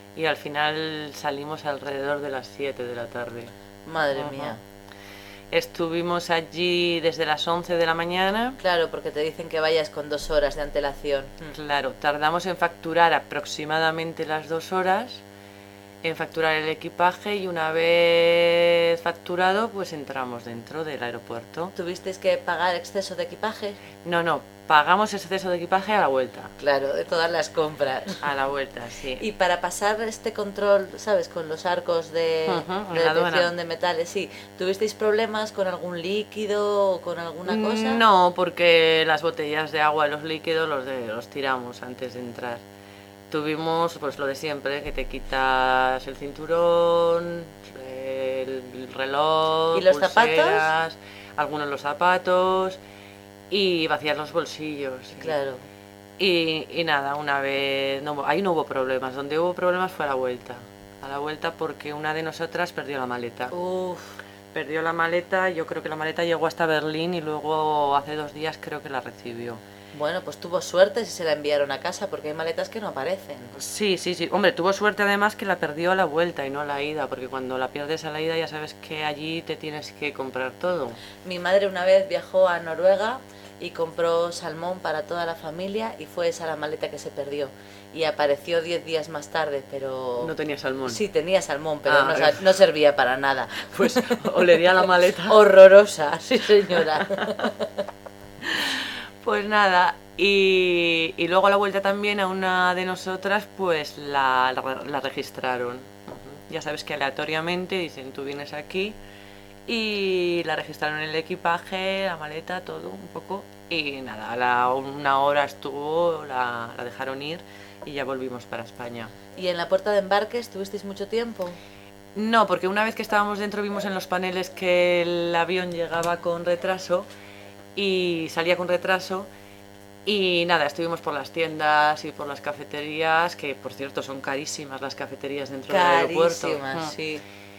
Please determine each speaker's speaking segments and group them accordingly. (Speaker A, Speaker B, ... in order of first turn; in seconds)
Speaker A: 0.1-3.5, 4.1-4.5, 5.5-8.6, 11.5-15.2, 16.0-21.7, 24.0-26.5, 28.2-29.2, 32.5-33.5, 37.5-42.6, 43.3-52.8, 53.5-55.4, 56.2-63.5, 64.5-69.6, 73.5-81.0, 90.2-91.0, 91.9-92.4, 93.7-95.4, 96.8-97.3, 98.4-109.0, 109.7-119.1, 122.2-127.1, 127.8-129.3, 130.1-136.9
Speaker B: 3.9-4.6, 8.6-11.5, 21.8-23.8, 26.6-28.2, 29.2-38.0, 49.7-50.7, 55.1-55.7, 63.5-64.2, 69.9-73.5, 81.2-90.3, 90.9-94.6, 95.3-97.8, 119.3-121.6, 135.7-137.2